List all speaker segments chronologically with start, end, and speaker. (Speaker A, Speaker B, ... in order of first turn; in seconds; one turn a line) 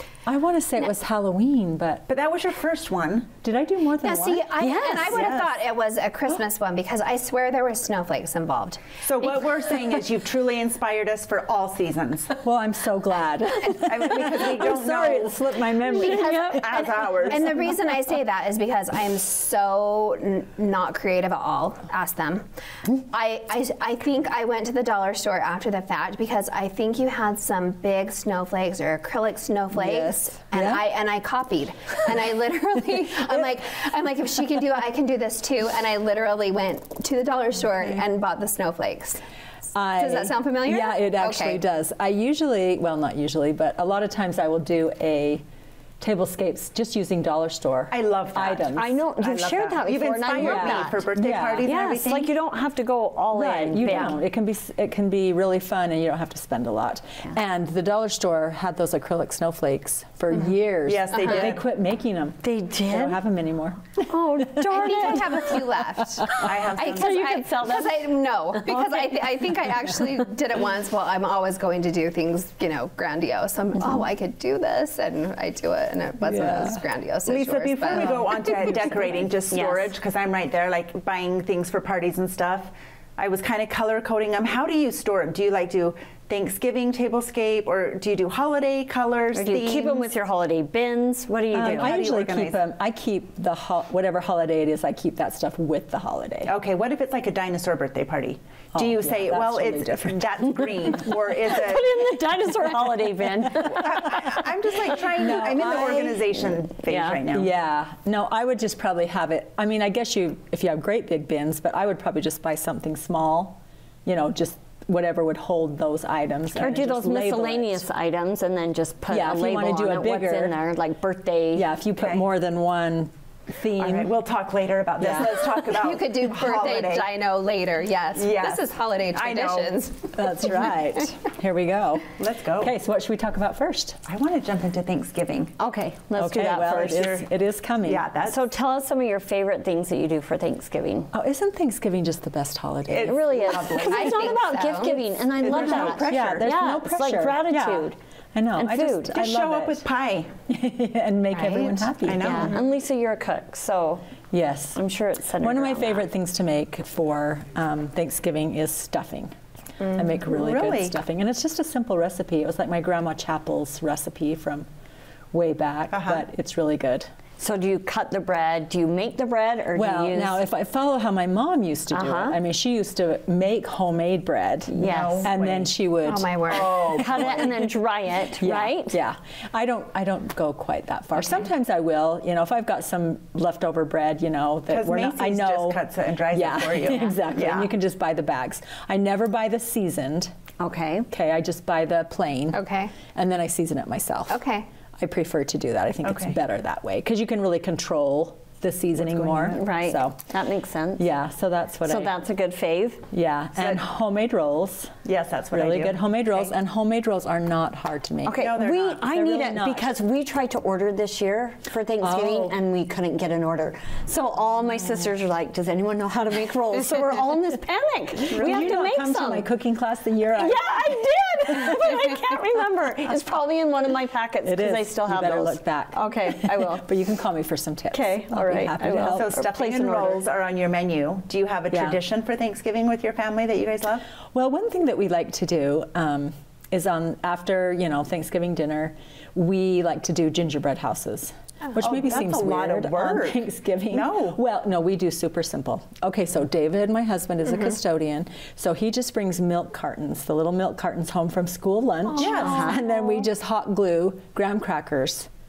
Speaker A: 0.2-2.0
Speaker B: 2.1-3.3
Speaker A: 3.4-4.9
Speaker C: 4.0-8.8
Speaker D: 4.6-5.1
Speaker B: 5.0-5.5
Speaker B: 9.0-12.3
Speaker A: 12.4-16.7
Speaker B: 13.8-15.4
Speaker C: 15.8-39.2
Speaker B: 16.1-17.8
Speaker A: 29.7-30.8
Speaker A: 39.7-45.4
Speaker C: 40.0-41.6
Speaker A: 46.0-49.0
Speaker B: 47.9-52.3
Speaker D: 48.7-54.2
Speaker A: 50.4-51.7
Speaker A: 53.3-65.2
Speaker B: 60.9-61.6
Speaker D: 62.4-63.2
Speaker D: 64.1-65.2
Speaker C: 64.6-78.5
Speaker B: 66.4-67.4
Speaker D: 66.8-68.0
Speaker A: 76.3-76.8
Speaker B: 77.3-90.1
Speaker D: 79.5-79.9
Speaker D: 89.3-92.0
Speaker A: 91.5-96.5
Speaker B: 91.5-92.6
Speaker B: 96.4-102.2
Speaker A: 98.7-101.0
Speaker D: 101.4-104.4
Speaker B: 103.7-107.5
Speaker A: 105.0-106.3
Speaker D: 106.8-107.2
Speaker A: 107.3-117.8
Speaker D: 116.6-121.7
Speaker A: 119.1-120.6
Speaker A: 121.5-124.1
Speaker B: 122.0-122.2
Speaker B: 123.8-127.1
Speaker A: 125.0-125.4
Speaker C: 125.5-130.5
Speaker B: 128.1-129.7
Speaker A: 130.1-134.0
Speaker B: 132.2-132.7
Speaker B: 134.1-135.5
Speaker D: 135.6-137.0
Speaker A: 136.2-138.1
Speaker B: 136.5-137.2
Speaker B: 137.8-138.4
Speaker D: 138.2-141.1
Speaker A: 141.1-143.2
Speaker B: 142.9-144.3
Speaker D: 143.0-147.9
Speaker C: 143.7-145.1
Speaker B: 145.4-146.5
Speaker A: 145.4-149.8
Speaker D: 148.6-149.2
Speaker B: 149.1-150.3
Speaker A: 150.5-152.6
Speaker C: 151.3-151.7
Speaker B: 151.5-152.6
Speaker D: 152.2-154.0
Speaker A: 154.3-154.8
Speaker D: 154.7-156.0
Speaker A: 155.4-164.7
Speaker B: 160.2-160.9
Speaker A: 165.3-167.1
Speaker B: 165.9-166.2
Speaker D: 167.4-170.4
Speaker A: 169.7-177.7
Speaker D: 171.9-172.4
Speaker D: 174.7-175.3
Speaker B: 174.8-175.7
Speaker C: 176.0-176.9
Speaker B: 176.5-177.5
Speaker D: 176.9-179.0
Speaker A: 178.4-190.3
Speaker B: 184.7-187.7
Speaker D: 190.6-191.1
Speaker A: 191.1-192.6
Speaker C: 192.5-192.9
Speaker A: 193.1-194.4
Speaker C: 194.3-194.7
Speaker A: 195.0-200.2
Speaker B: 196.0-196.4
Speaker B: 199.0-199.7
Speaker D: 199.5-201.0
Speaker A: 200.9-202.2
Speaker D: 201.8-203.0
Speaker A: 203.1-204.9
Speaker B: 203.6-203.8
Speaker B: 205.0-206.5
Speaker A: 205.5-208.5
Speaker D: 208.2-219.5
Speaker B: 208.4-209.1
Speaker A: 209.0-209.9
Speaker A: 212.0-212.5
Speaker A: 218.3-220.6
Speaker B: 218.3-218.7
Speaker D: 220.3-226.8
Speaker A: 221.5-221.8
Speaker A: 224.4-229.3
Speaker D: 227.9-230.3
Speaker B: 229.1-234.1
Speaker A: 231.7-232.0
Speaker A: 234.3-255.3
Speaker B: 241.7-244.4
Speaker C: 252.1-253.3
Speaker B: 252.2-252.6
Speaker D: 252.4-252.8